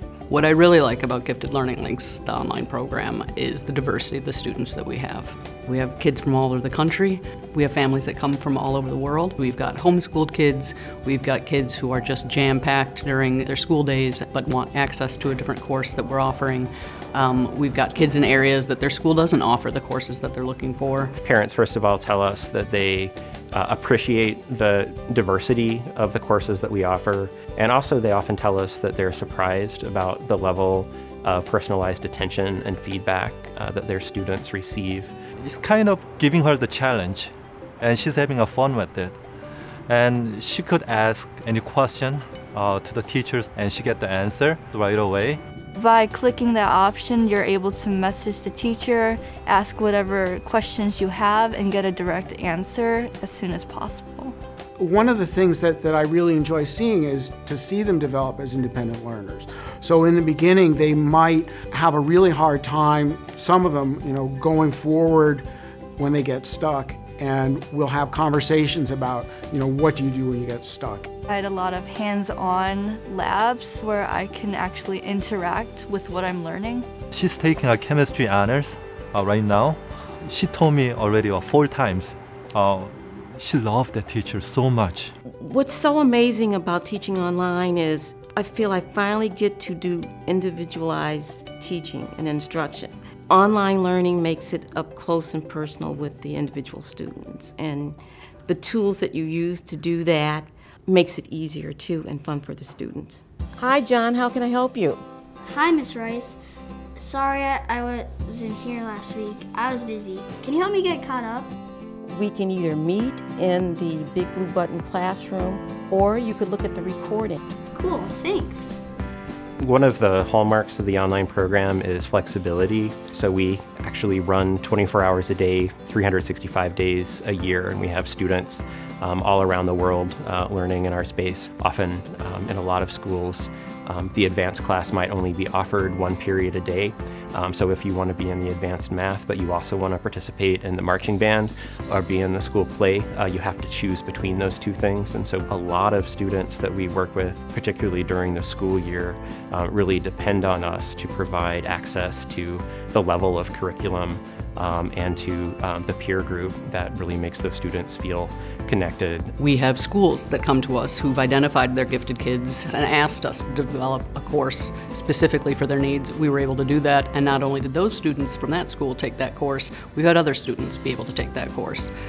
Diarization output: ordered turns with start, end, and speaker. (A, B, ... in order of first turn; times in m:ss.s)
0:00.3-0:21.1 A
0:21.2-0:35.1 B
0:35.4-0:39.2 C
0:39.9-0:45.4 C
0:45.8-0:54.4 D
0:54.8-1:05.5 E
1:06.0-1:11.1 E
1:11.3-1:16.9 D
1:17.1-1:25.1 C
1:25.3-1:45.0 F
1:45.4-1:46.4 G
1:47.0-1:51.6 G
1:52.0-1:57.4 F
1:57.7-1:58.8 G
1:59.6-2:39.3 B
2:39.4-2:51.9 A